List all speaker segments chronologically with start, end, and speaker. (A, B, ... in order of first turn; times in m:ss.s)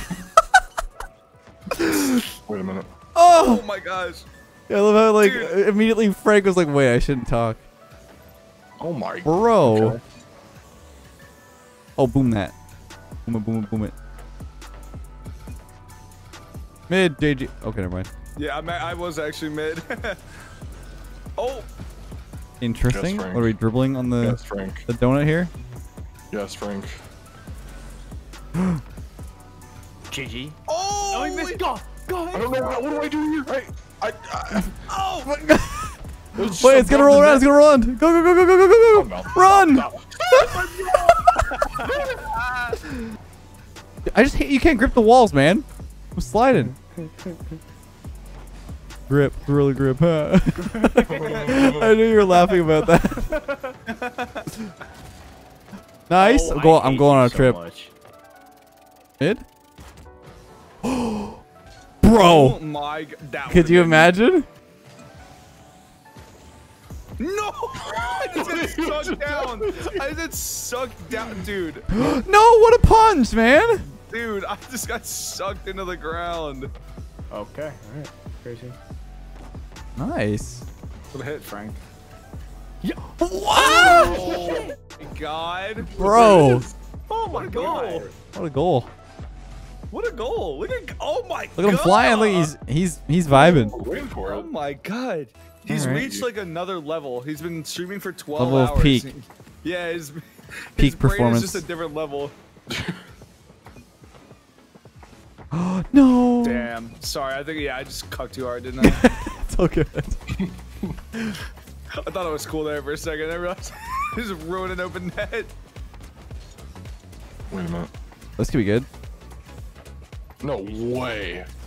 0:01.7-0:02.2 A
0:02.3-0:02.9 B
0:03.2-0:03.6 A
0:03.3-0:04.3 C
0:04.7-0:07.6 A
0:05.2-0:05.5 C
0:08.8-0:10.0 B
0:09.2-0:10.0 A
0:12.0-0:12.5 A
0:13.2-0:13.9 A
0:16.9-0:18.1 A
0:18.4-0:20.2 C
0:21.4-0:21.7 C
0:22.6-0:25.5 A
0:22.9-0:23.5 B
0:24.2-0:24.8 B
0:26.3-0:27.0 B
0:30.1-0:30.6 D
0:30.7-0:31.6 C
0:31.1-0:32.8 D
0:32.3-0:34.7 B
0:34.9-0:35.3 C
0:35.3-0:40.6 A
0:36.3-0:37.5 B
0:38.9-0:41.0 B
0:40.4-0:41.1 D
0:41.8-0:42.8 C
0:44.1-0:45.6 A
0:46.2-0:46.7 A
0:46.6-0:47.6 D
0:49.1-0:53.4 A
0:50.9-0:52.0 B
0:51.2-0:51.7 C
0:53.1-0:53.7 D
0:53.9-0:54.5 C
0:56.1-0:57.6 A
0:56.2-0:57.9 D
1:00.8-1:01.4 A
1:02.0-1:02.6 A
1:02.1-1:04.1 C
1:03.4-1:04.4 A
1:07.2-1:11.9 C
1:08.3-1:10.0 B
1:11.9-1:13.8 A
1:14.0-1:16.7 C
1:17.3-1:18.8 D
1:20.0-1:20.6 A
1:21.1-1:21.8 C
1:23.0-1:24.5 A
1:23.5-1:24.6 D
1:23.6-1:26.5 C
1:25.8-1:26.7 B
1:26.0-1:26.6 A
1:27.1-1:28.1 D
1:27.2-1:28.1 C
1:28.3-1:28.9 A
1:29.9-1:32.5 C
1:31.6-1:33.7 A
1:33.3-1:34.5 B
1:34.2-1:40.2 C
1:35.7-1:36.0 A
1:35.8-1:36.3 B
1:38.4-1:39.1 A
1:40.7-1:42.3 C
1:40.8-1:41.6 A
1:42.7-1:43.0 B
1:45.5-1:46.7 A
1:46.4-1:49.0 C
1:48.8-1:50.2 A
1:50.4-1:50.9 B
1:52.0-1:55.5 C
1:57.5-1:57.9 B
1:58.4-1:58.9 A
2:00.4-2:01.5 B